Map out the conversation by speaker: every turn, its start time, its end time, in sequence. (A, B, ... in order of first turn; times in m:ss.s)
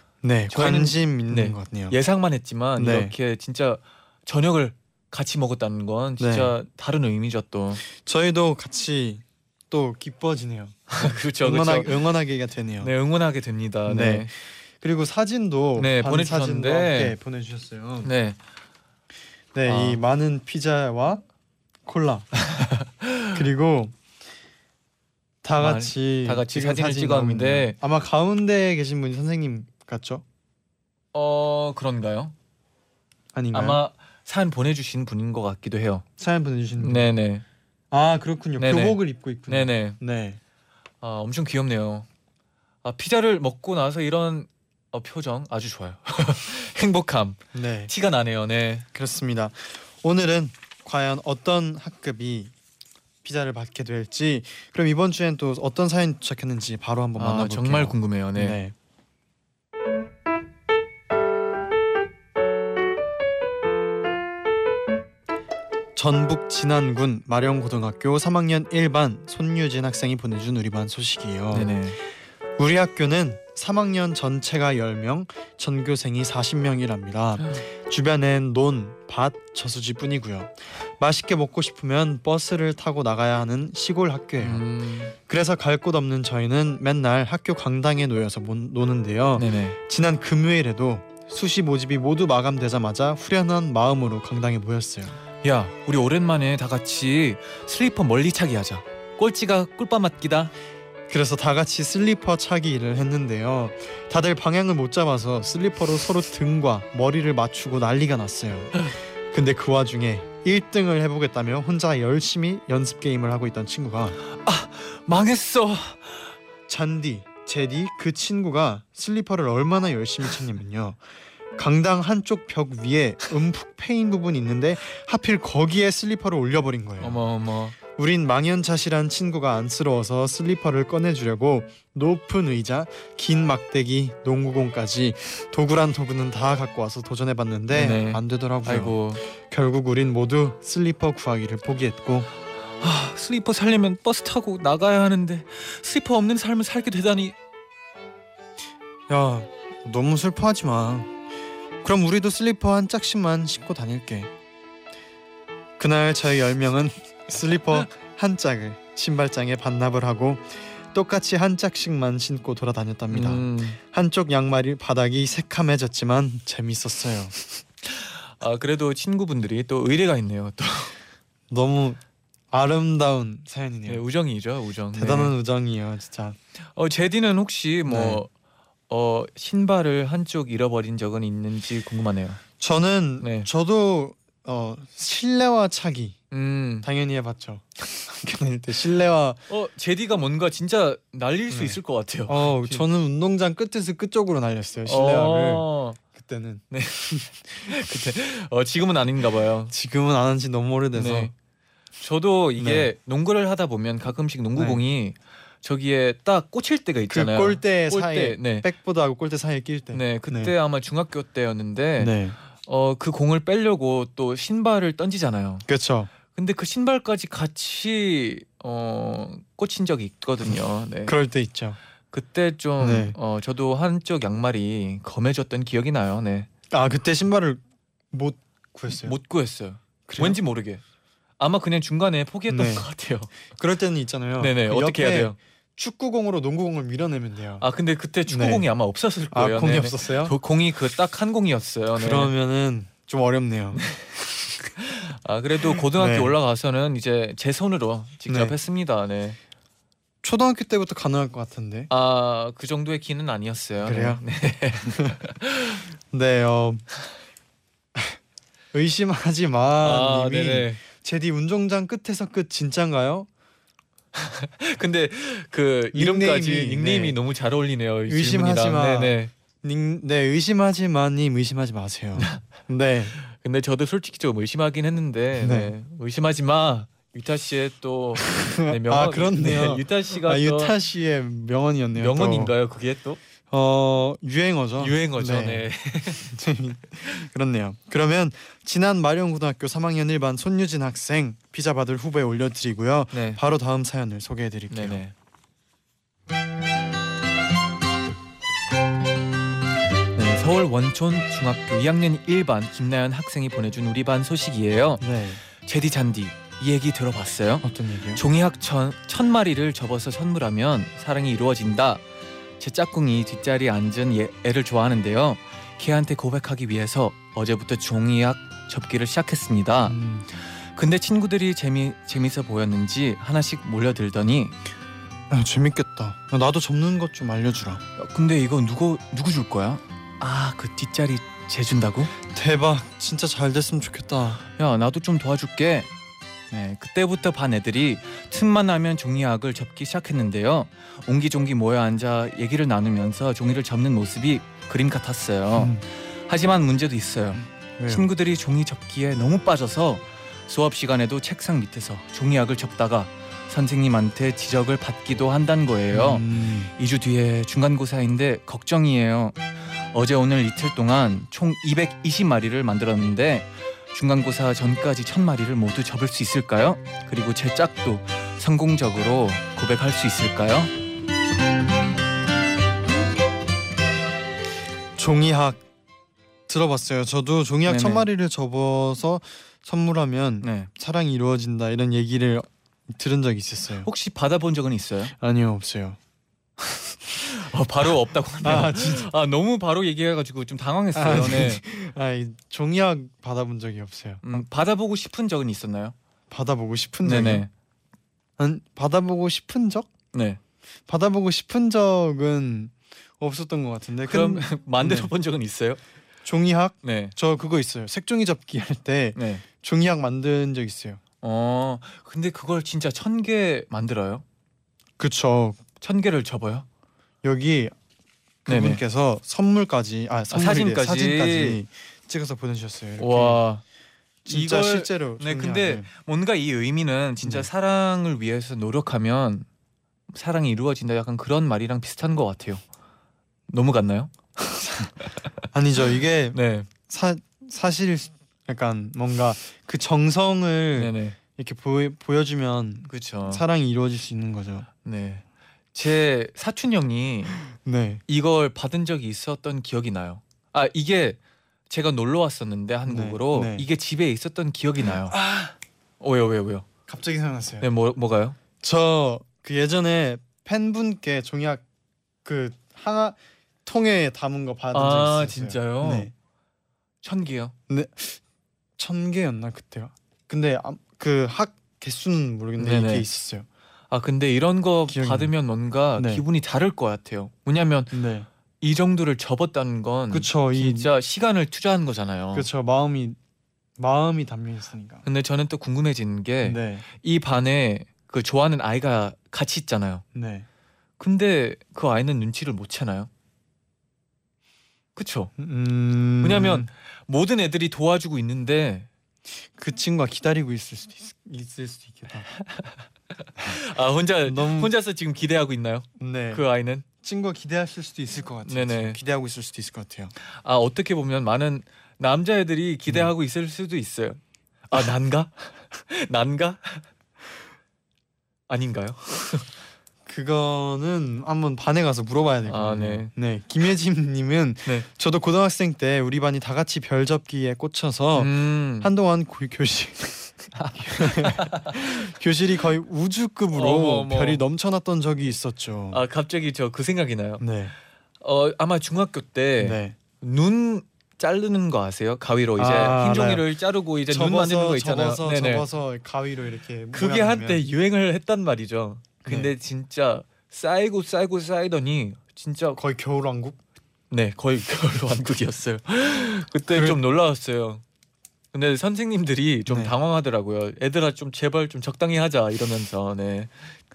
0:00.2-0:02.0 A
0:00.5-0:07.8 B
0:02.8-0:03.1 A
0:06.2-0:06.5 A
0:07.8-0:12.9 A
0:10.9-0:12.1 B
0:12.8-0:14.3 B
0:13.9-0:18.1 A
0:15.8-0:17.2 B
0:18.0-0:18.4 B
0:19.5-0:21.2 A
0:19.6-0:20.0 B
0:21.8-0:22.3 A
0:22.4-0:23.3 B
0:23.3-0:24.0 A
0:25.4-0:30.2 A
0:25.6-0:27.8 B
0:31.1-0:32.3 B
0:33.3-0:33.8 A
0:33.5-0:36.0 B
0:36.2-0:37.1 A
0:36.8-0:37.4 B
0:37.9-0:40.4 A
0:38.6-0:39.0 B
0:39.5-0:40.0 B
0:41.0-0:42.1 B
0:42.8-0:48.8 B
0:47.5-0:47.9 A
0:48.9-0:52.5 A
0:53.2-0:58.7 A
0:57.2-0:58.6 B
1:06.0-1:11.7 A
1:11.5-1:12.0 B
1:12.6-1:24.6 A
1:24.4-1:25.1 B
1:25.2-1:35.2 A
1:29.4-1:29.8 B
1:35.4-1:40.5 B
1:41.1-1:54.2 A
1:54.3-1:56.3 B
1:56.7-2:01.0 A
2:01.6-2:07.2 A
2:07.0-2:07.8 B
2:08.0-2:22.3 A
2:17.7-2:19.2 B
2:22.8-2:27.4 B
2:29.1-2:31.1 A
2:31.8-2:34.3 A
2:35.8-2:47.4 A
2:43.1-2:43.8 B
2:47.8-2:50.9 B
2:51.5-2:52.0 A
2:52.5-2:54.0 A
2:53.9-2:55.3 B
2:54.9-2:56.4 A
2:56.7-2:58.3 B
2:57.9-2:58.2 A
2:58.9-3:02.4 B
3:02.6-3:06.2 A
3:03.2-3:03.5 B
3:06.3-3:06.9 B
3:06.8-3:09.4 A
3:09.5-3:12.8 B
3:11.5-3:17.3 A
3:14.9-3:16.0 B
3:16.7-3:19.7 B
3:19.7-3:21.3 A
3:20.9-3:21.3 B
3:22.0-3:28.7 B
3:22.6-3:22.9 A
3:24.6-3:24.8 A
3:27.1-3:30.5 A
3:29.9-3:35.6 B
3:32.0-3:32.4 A
3:35.6-3:36.1 A
3:36.3-3:41.1 B
3:41.0-3:41.8 A
3:42.1-3:46.5 B
3:42.8-3:43.2 A
3:46.7-3:49.2 A
3:49.0-3:50.8 B
3:50.1-3:50.4 A
3:51.4-3:53.4 B
3:52.5-3:52.8 A
3:53.5-3:57.6 A
3:54.4-3:55.4 B
3:57.6-4:02.3 B
3:58.3-3:58.7 A
3:59.3-4:00.4 A
4:01.9-4:03.8 A
4:03.8-4:04.1 B
4:04.8-4:09.4 B
4:05.9-4:06.3 A
4:08.3-4:08.5 A
4:10.2-4:11.9 A
4:11.9-4:15.8 B
4:13.8-4:14.2 A
4:14.8-4:15.2 A
4:16.1-4:16.8 A
4:18.7-4:23.3 A
4:19.8-4:20.8 B
4:24.1-4:29.3 B
4:25.9-4:27.2 A
4:28.1-4:33.1 A
4:32.2-4:32.4 B
4:33.2-4:40.7 B
4:35.4-4:35.7 A
4:38.2-4:42.5 A
4:42.0-4:43.2 B
4:43.5-4:55.0 A
4:44.8-4:46.3 B
4:53.1-4:53.4 B
4:54.7-4:55.1 B
5:00.1-5:12.0 B
5:05.0-5:05.4 A
5:07.6-5:08.2 A
5:12.6-5:20.0 B
5:19.8-5:20.3 A
5:20.5-5:24.6 B
5:25.3-5:27.8 A
5:28.0-5:32.1 B
5:32.3-5:34.4 A
5:34.6-5:35.9 B
5:36.5-6:10.7 B
5:45.5-5:45.8 A
5:47.4-5:48.0 A
5:55.9-5:56.7 A
6:15.0-6:15.6 A
6:16.5-6:23.9 A
6:17.7-6:18.0 B
6:20.4-6:20.7 B
6:23.8-6:25.1 B
6:25.2-6:26.0 A
6:27.2-6:31.6 B
6:28.4-6:29.1 A
6:30.9-6:34.4 A
6:34.2-6:36.0 B
6:36.3-6:37.4 A
6:37.0-6:37.5 B
6:38.4-6:39.9 A
6:40.1-6:40.4 B
6:40.9-6:45.1 A
6:44.1-6:45.8 B
6:46.2-6:51.0 A
6:46.8-6:47.1 B
6:49.2-6:49.4 B
6:51.2-6:54.2 B
6:55.0-6:55.6 A
6:55.8-6:56.6 B
6:57.2-6:57.7 A
6:58.4-7:03.4 A
6:58.5-6:58.8 B
7:00.3-7:01.6 B
7:03.0-7:03.6 B
7:04.2-7:05.9 A
7:04.3-7:09.4 B
7:10.1-7:12.6 B
7:13.5-7:15.3 B
7:15.5-7:24.7 A
7:16.3-7:16.7 B
7:20.8-7:21.2 B
7:22.9-7:23.4 B
7:24.8-7:27.4 B
7:27.5-7:28.0 A
7:28.1-7:31.2 B
7:31.7-7:35.2 B
7:32.9-7:33.6 A
7:36.0-7:36.7 B
7:36.9-7:37.7 A
7:37.6-7:38.4 B
7:38.6-7:41.6 A
7:42.2-7:46.1 A
7:44.7-7:46.1 B
7:47.0-7:47.5 B
7:47.7-7:48.2 A
7:48.8-7:53.5 A
7:52.6-7:53.0 B
7:53.9-7:58.0 B
7:54.9-7:55.3 A
7:56.0-7:56.2 A
7:57.9-7:58.3 A
7:58.6-8:02.5 B
8:00.1-8:00.9 A
8:02.3-8:03.2 A
8:03.8-8:05.0 A
8:05.0-8:10.0 B
8:06.4-8:06.8 A
8:10.1-8:10.4 A
8:11.0-8:13.1 B
8:14.9-8:15.3 B
8:15.4-8:16.7 A
8:16.2-8:18.9 B
8:19.5-8:22.3 A
8:22.5-8:26.8 B
8:24.2-8:24.7 A
8:26.0-8:30.1 A
8:28.4-8:29.0 B
8:30.3-8:36.8 B
8:38.5-8:39.5 B
8:40.0-8:56.0 A
8:42.5-8:43.1 B
8:48.1-8:48.9 B
8:50.5-8:52.1 B
8:53.5-8:54.4 B
8:55.9-8:57.4 B
8:57.4-8:57.7 A
8:58.2-9:05.6 B
8:59.6-9:00.0 A
9:02.6-9:03.5 A
9:04.1-9:07.6 A
9:06.9-9:12.8 B
9:09.2-9:09.5 A
9:12.8-9:13.6 A
9:14.1-9:17.8 B
9:16.7-9:17.0 A
9:18.5-9:23.7 B
9:19.7-9:19.9 A